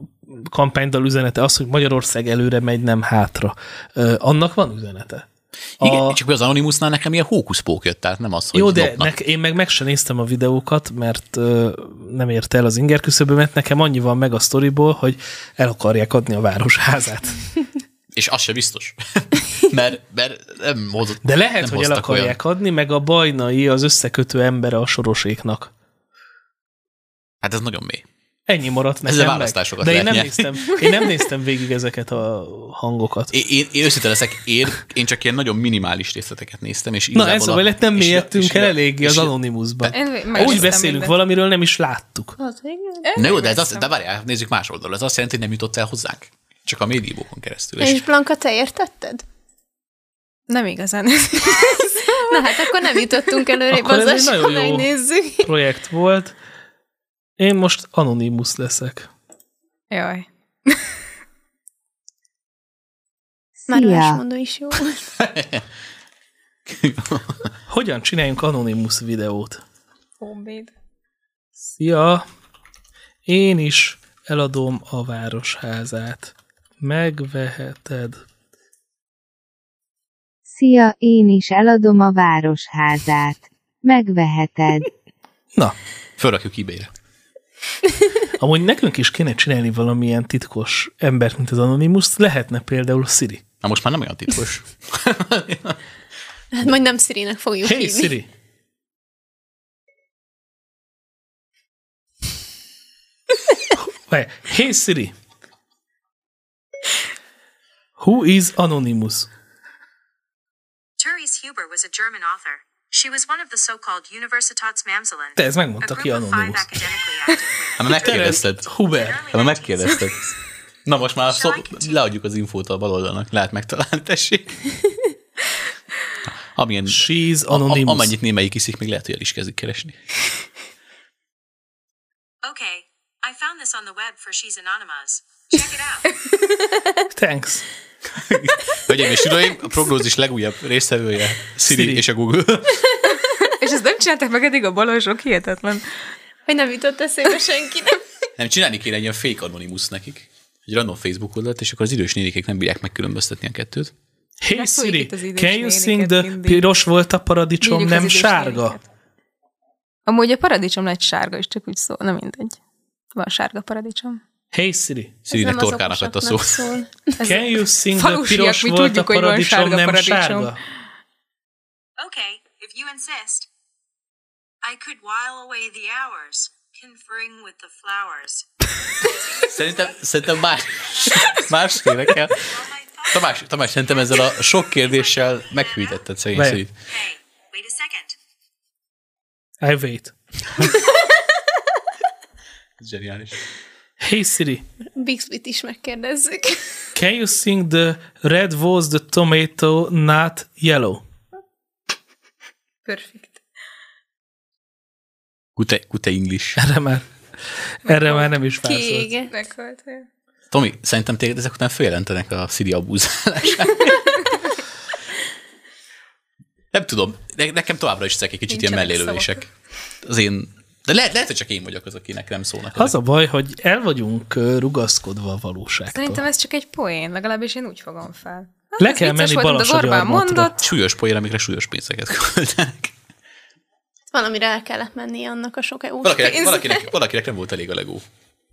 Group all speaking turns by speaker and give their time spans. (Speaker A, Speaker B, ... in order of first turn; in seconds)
Speaker A: 0.3-5.3, 5.8-6.2, 8.5-17.4, 21.2-25.7, 28.5-33.3, 37.1-42.4, 53.7-56.4, 57.4-59.1, 67.7-69.6, 71.6-72.2, 73.3-78.2, 88.4-93.4, 97.6-98.3, 104.0-105.2, 108.0-109.3, 115.4-116.8, 118.0-119.2, 126.9-128.1, 137.1-137.7, 141.7-142.0, 154.4-158.8, 164.5-165.2, 167.2-170.6, 186.3-186.6, 189.6-190.2, 194.0-194.7, 196.9-201.0, 206.6-207.1, 207.8-209.1, 222.8-226.2, 228.8-230.5
Speaker B: 5.8-9.1, 18.1-22.4, 27.4-28.1, 29.1-30.8, 33.3-40.7, 43.2-48.0, 65.2-65.6, 66.7-67.5, 86.2-86.9, 93.6-95.8, 117.8-120.2, 120.8-124.6, 126.5-130.0, 138.1-142.9, 148.4-153.9, 165.3-166.7, 179.5-182.4, 183.1-186.7, 192.8-193.4, 205.6-206.6, 210.5-214.3, 216.7-219.5, 220.0-222.9, 230.6-232.9, 236.0-238.1
Speaker C: 39.9-41.1, 43.0-43.9, 50.5-53.4, 59.9-60.9, 70.2-70.7, 143.5-145.9, 154.5-156.7, 157.6-158.8, 160.1-162.6, 163.2-164.2, 167.2-170.5, 202.9-203.4, 207.9-208.3, 209.3-210.1, 218.5-219.4, 225.9-230.6
Speaker D: 42.4-43.2, 47.8-49.2, 51.5-55.5, 63.7-65.0, 96.5-98.1, 146.5-148.0, 165.3-167.1, 194.9-196.6, 208.6-209.3, 234.1-236.9
Speaker E: 63.7-64.2, 80.5-84.9
Speaker F: 111.0-120.4, 121.2-122.0, 132.4-136.1, 172.0-173.5, 174.6-178.5, 179.4-180.0, 180.9-186.0, 186.8-188.2